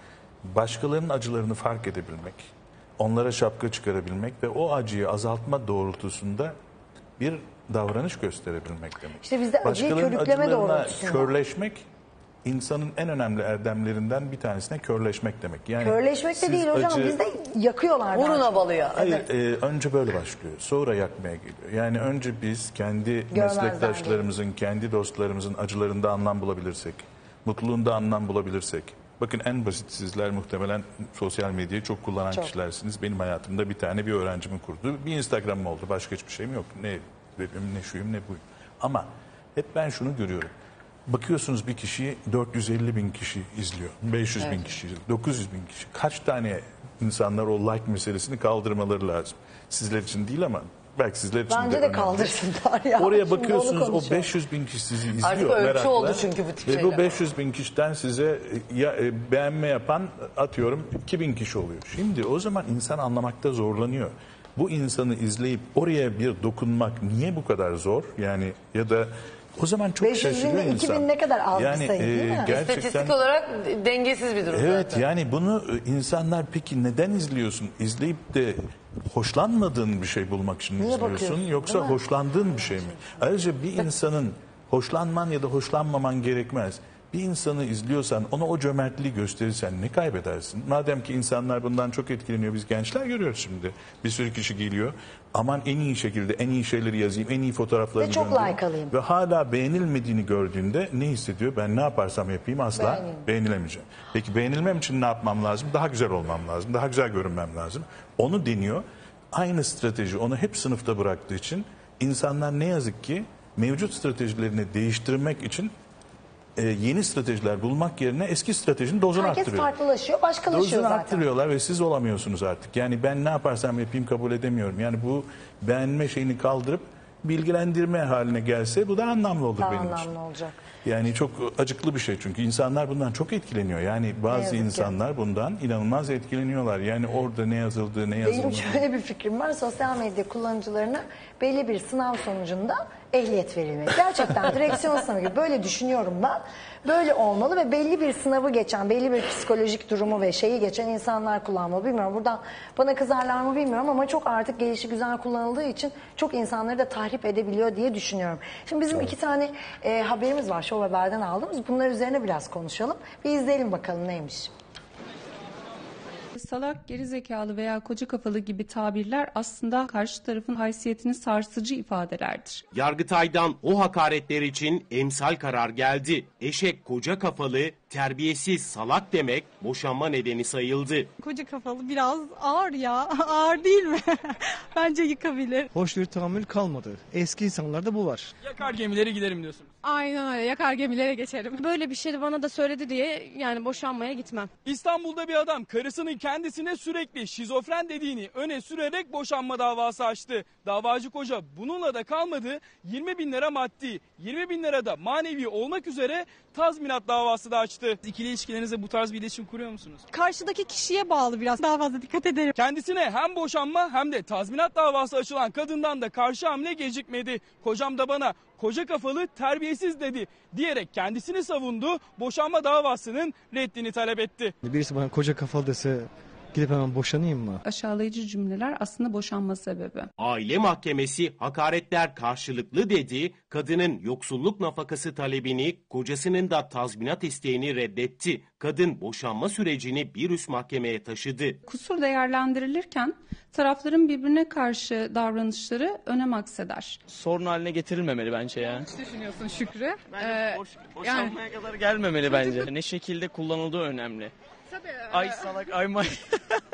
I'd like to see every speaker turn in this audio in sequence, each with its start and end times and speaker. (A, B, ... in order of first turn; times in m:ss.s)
0:00.4-0:02.5 A
0:03.0-0:06.5 A
0:07.2-0:11.8 A
0:09.2-0:11.3 B
0:12.4-0:17.2 A
0:15.8-0:18.7 B
0:18.1-0:19.2 C
0:19.0-0:40.5 A
0:23.3-0:24.2 B
0:41.1-0:52.4 A
0:44.4-0:44.7 C
0:51.5-0:54.3 B
0:53.0-1:13.2 A
0:55.2-0:57.2 C
1:10.0-1:12.5 B
1:12.4-1:15.1 C
1:14.5-1:55.7 A
1:20.8-1:22.0 B
1:38.0-1:38.9 B
1:42.7-1:43.2 B
1:56.6-1:59.7 A
1:59.1-2:01.2 B
2:00.5-2:10.1 A
2:09.6-2:10.6 B
2:10.8-2:18.8 A
2:14.3-2:15.0 B
2:18.2-2:44.5 B
2:46.3-2:52.6 D
2:52.7-3:01.1 E
3:01.2-3:05.7 F
3:05.7-3:08.3 G
3:08.4-3:09.7 H
3:09.8-3:14.5 F
3:14.6-3:30.0 H
3:30.1-3:32.5 F
3:32.6-3:44.5 H
3:44.6-3:47.6 G
3:47.6-3:50.1 D
3:50.2-4:01.6 E
4:01.6-4:07.0 D
4:07.1-4:08.9 I
4:08.9-4:11.4 F
4:10.1-4:14.3 I
4:15.1-4:16.4 I
4:15.1-4:15.4 F